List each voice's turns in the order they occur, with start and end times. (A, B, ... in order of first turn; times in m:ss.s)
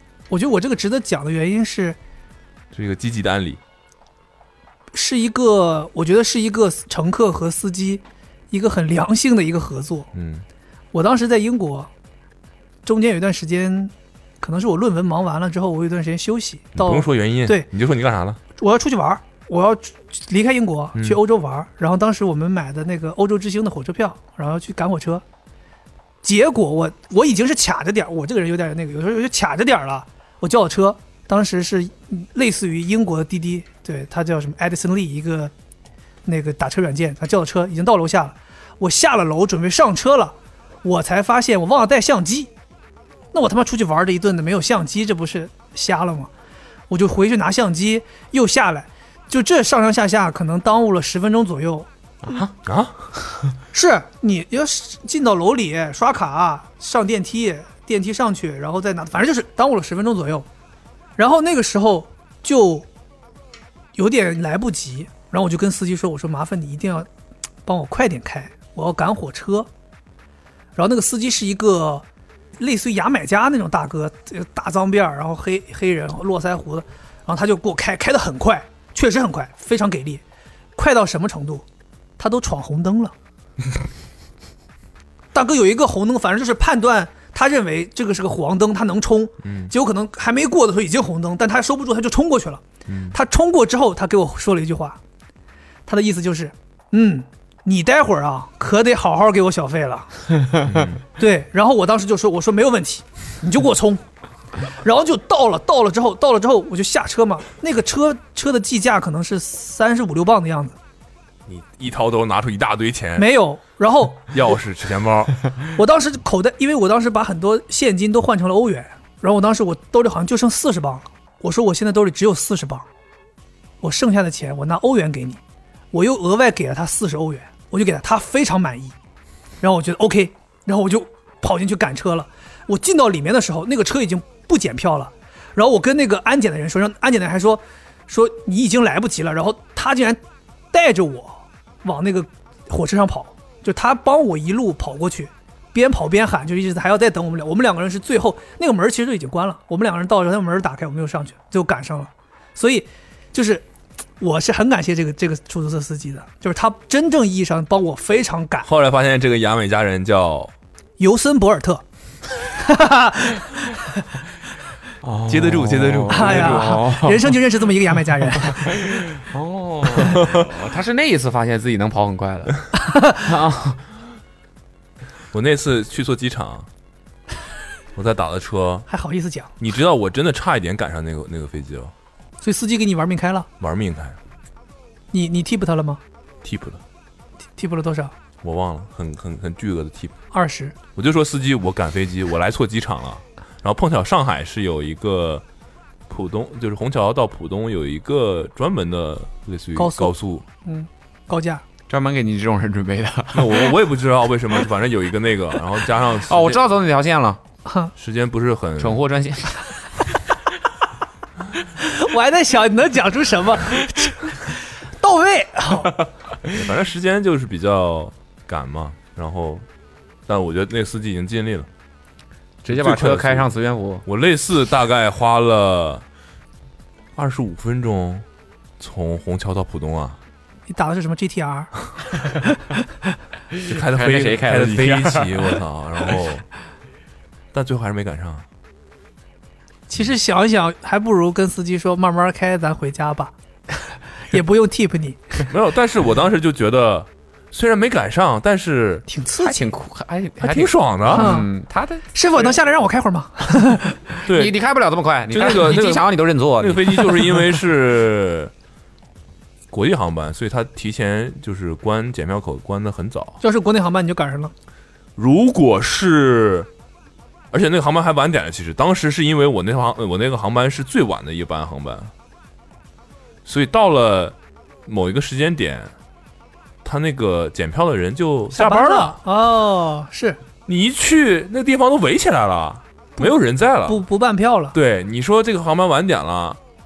0:00.3-0:02.0 A
0:02.7-0:03.6 B
0:04.9-0:10.1 A
0:10.1-0:10.4 B
0:10.9-0:11.9 A
0:12.8-0:17.7 A
0:16.7-0:18.4 B
0:18.6-0:25.2 A
0:20.9-0:21.2 B
0:26.2-0:35.5 A
0:36.2-0:42.5 A
0:43.3-0:46.3 A
0:46.9-0:51.9 A
0:52.2-0:52.5 C
0:52.6-0:53.0 B
0:53.7-1:00.4 A
1:01.2-1:02.9 A
1:04.0-1:07.1 A
1:07.6-1:09.7 A
1:10.8-1:12.0 A
1:12.6-1:20.2 A
1:20.8-1:21.6 A
1:22.2-1:23.1 A
1:25.3-1:35.0 A
1:29.4-1:29.7 B
1:32.9-1:33.2 B
1:35.9-1:40.2 A
1:40.6-1:41.0 B
1:41.2-1:44.0 A
1:44.8-1:50.8 A
1:51.5-1:53.3 B
1:53.2-1:54.3 A
1:54.2-1:55.3 B
1:55.7-2:02.9 A
2:03.8-2:05.4 A
2:05.9-2:08.9 A
2:09.6-2:20.2 A
2:20.7-2:33.6 A
2:34.2-2:38.7 A
2:38.6-2:40.5 B
2:41.0-2:41.8 A
2:42.5-2:44.0 A
2:45.0-2:47.4 C
2:45.3-2:46.8 B
2:46.1-2:48.7 A
2:48.6-2:53.8 C
2:52.9-2:53.2 A
2:55.3-2:56.7 B
2:57.9-2:58.8 B
2:58.9-2:59.5 A
2:59.6-3:01.9 B
3:02.4-3:03.5 A
3:03.6-3:04.2 B
3:05.1-3:06.0 A
3:06.4-3:06.8 B
3:07.6-3:08.1 A
3:08.4-3:10.1 B
3:10.3-3:10.7 A
3:10.9-3:15.4 B
3:16.1-3:20.4 B
3:19.8-3:21.6 A
3:21.9-3:23.8 C
3:23.3-3:26.6 B
3:26.1-3:27.4 C
3:27.6-3:27.9 A
3:28.0-3:29.0 B
3:28.8-3:29.7 C
3:31.8-3:35.9 A
3:36.5-3:39.6 B
3:40.3-3:41.7 B
3:42.6-3:43.5 B
3:42.6-3:44.0 C
3:44.0-3:46.0 B
3:47.2-3:48.2 B
3:48.8-3:50.2 B
3:50.7-3:51.7 A
3:53.6-3:55.6 C
3:53.6-3:56.4 B
3:57.5-3:58.4 B
3:59.9-4:03.3 A
4:04.3-4:05.2 A
4:05.5-4:09.0 B
4:09.1-4:09.7 A
4:09.4-4:12.5 C
4:10.4-4:11.4 B
4:11.1-4:11.5 A
4:12.1-4:14.0 A
4:14.2-4:17.4 C
4:14.2-4:14.6 B
4:15.3-4:16.1 B
4:16.6-4:18.5 B
4:19.7-4:23.4 B
4:23.4-4:24.5 A
4:25.2-4:26.7 B
4:27.5-4:32.1 B
4:33.4-4:34.3 B
4:34.8-4:35.9 B
4:36.8-4:39.2 B
4:38.5-4:40.4 A
4:40.6-4:44.0 B
4:43.2-4:44.8 A
4:44.7-4:46.6 B